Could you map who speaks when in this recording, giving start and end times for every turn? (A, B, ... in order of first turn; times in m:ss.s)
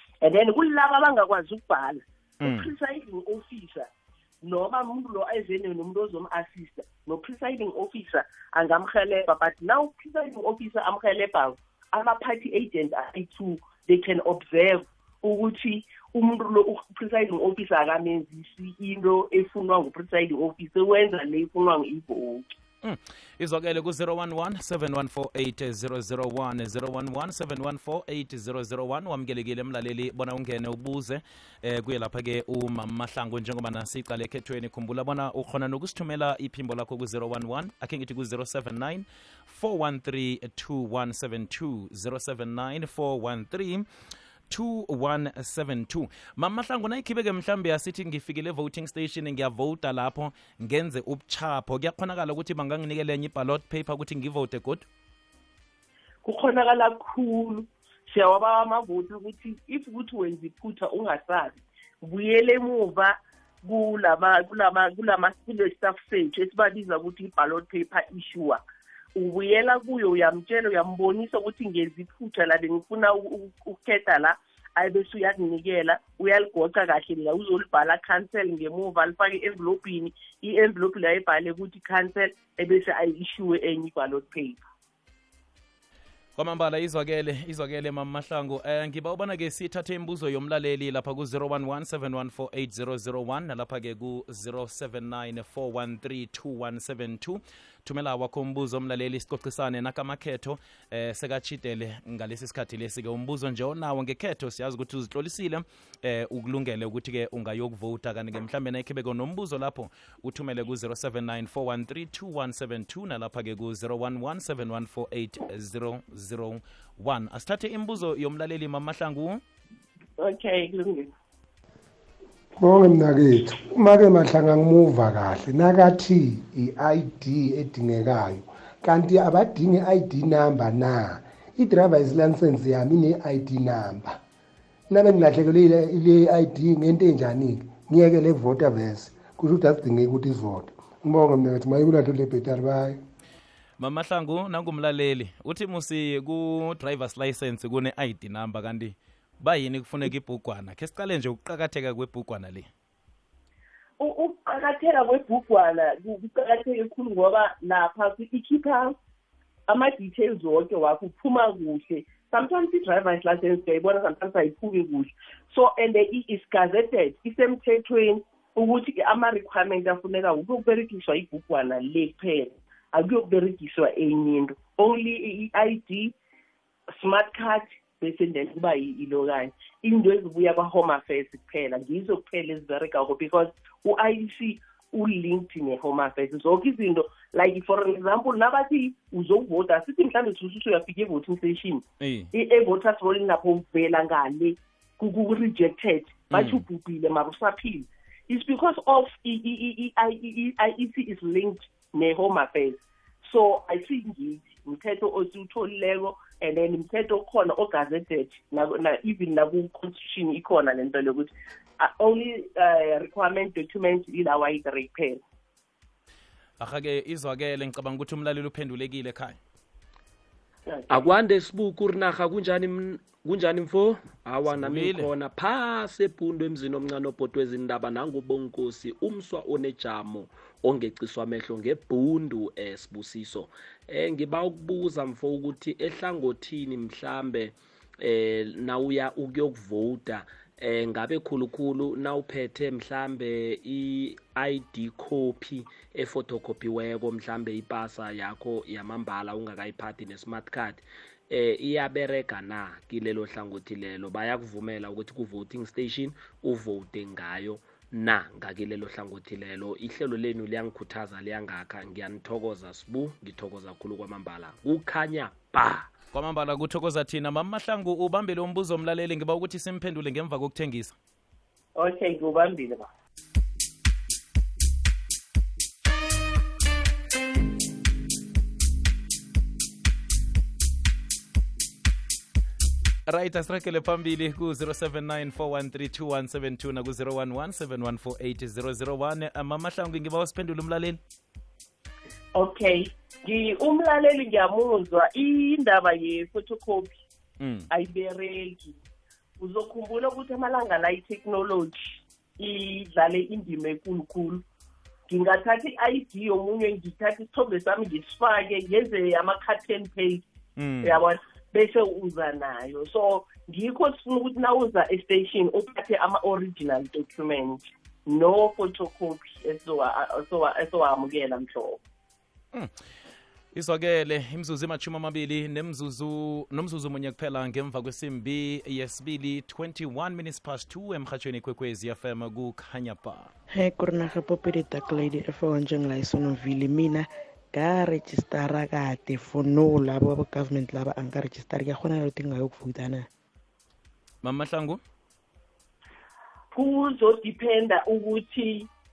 0:00.2-0:03.9 A
0:02.4-0:02.7 B
0:04.4-0:22.5 A
0:22.8-0:43.8 B
0:44.5-0:54.9 B
0:56.2-1:08.6 A
1:09.2-1:24.6 A
1:26.4-1:59.4 B
2:00.2-2:01.1 A
2:02.6-2:14.2 C
2:14.9-2:23.0 C
2:23.8-2:32.7 B
2:34.0-2:39.0 A
2:39.7-2:56.1 A
2:57.0-3:35.2 A
3:12.0-3:12.3 B
3:16.3-3:16.6 B
3:36.6-3:39.4 B
3:40.7-3:41.1 A
3:40.9-4:25.9 D
3:44.5-3:45.1 B
4:26.1-4:30.9 B
4:31.8-4:32.9 A
4:43.1-4:51.0 B
4:52.4-4:57.0 A
4:57.4-4:57.7 B
4:57.7-4:58.8 A
4:59.4-5:04.4 A
5:05.1-5:10.2 A
5:10.6-5:11.0 B
5:10.8-5:21.8 A
5:23.5-5:33.3 B
5:33.5-5:43.1 E
5:44.2-5:44.8 B
5:46.5-5:48.7 A